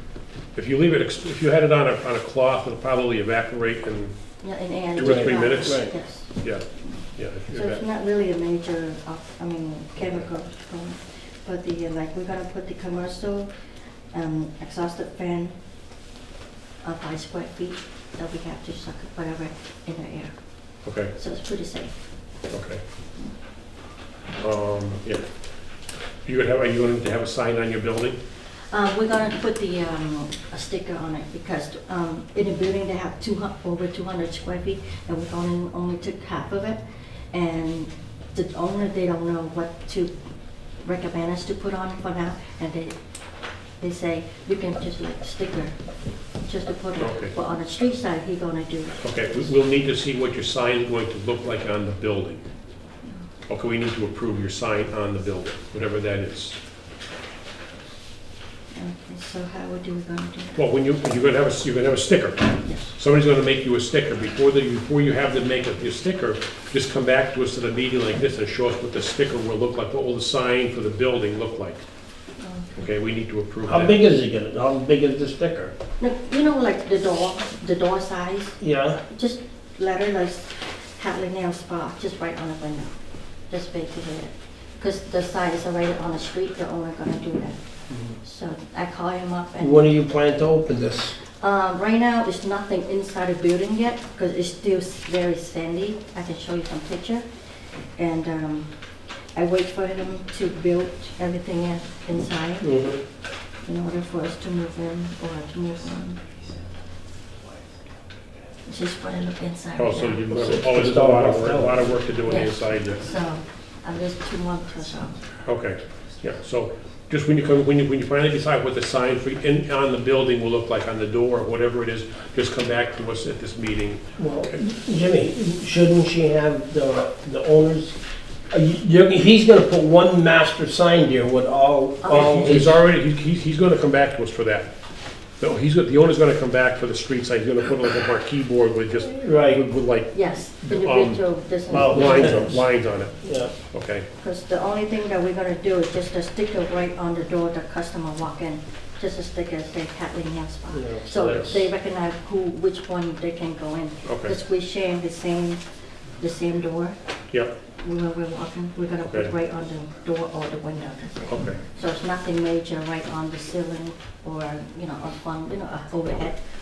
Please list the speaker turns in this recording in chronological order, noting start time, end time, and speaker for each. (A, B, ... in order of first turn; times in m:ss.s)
0:00.5-0:04.1 A
0:04.4-0:13.5 B
0:04.9-0:07.8 A
0:05.0-0:05.9 C
0:14.1-0:15.6 B
0:16.8-0:20.3 B
0:20.8-0:21.1 A
0:21.1-0:21.9 B
0:22.5-0:22.8 A
0:24.4-0:25.2 A
0:26.2-0:28.2 A
0:28.7-0:40.1 B
0:40.8-0:43.0 B
0:43.8-0:45.8 B
0:46.4-0:49.3 B
0:47.0-0:47.3 A
0:49.0-0:52.4 A
0:53.5-0:56.6 A
0:58.7-1:00.6 B
1:00.6-1:11.8 A
1:02.6-1:02.9 B
1:12.4-1:12.8 B
1:12.8-1:14.0 A
1:13.6-1:15.7 C
1:16.0-1:23.0 B
1:18.6-1:19.0 C
1:23.5-1:27.6 B
1:27.9-1:28.2 C
1:28.2-1:30.0 B
1:29.6-1:31.2 C
1:31.4-1:37.2 B
1:38.0-1:38.7 B
1:39.3-1:42.8 B
1:42.6-1:43.0 C
1:43.6-1:46.2 B
1:48.6-1:50.3 B
1:49.8-1:53.0 A
1:50.3-1:51.8 C
1:52.2-1:55.2 B
1:55.4-2:04.6 A
2:04.2-2:08.0 C
2:08.5-2:12.8 C
2:12.0-2:12.7 B
2:12.1-2:14.7 A
2:15.4-2:24.0 A
2:19.0-2:19.6 C
2:20.1-2:22.6 B
2:21.7-2:22.6 C
2:23.2-2:23.5 C
2:24.2-2:35.6 B
2:30.7-2:31.7 C
2:34.0-2:34.4 A
2:36.2-2:37.0 B
2:37.8-2:46.4 B
2:39.0-2:39.3 A
2:41.3-2:41.6 A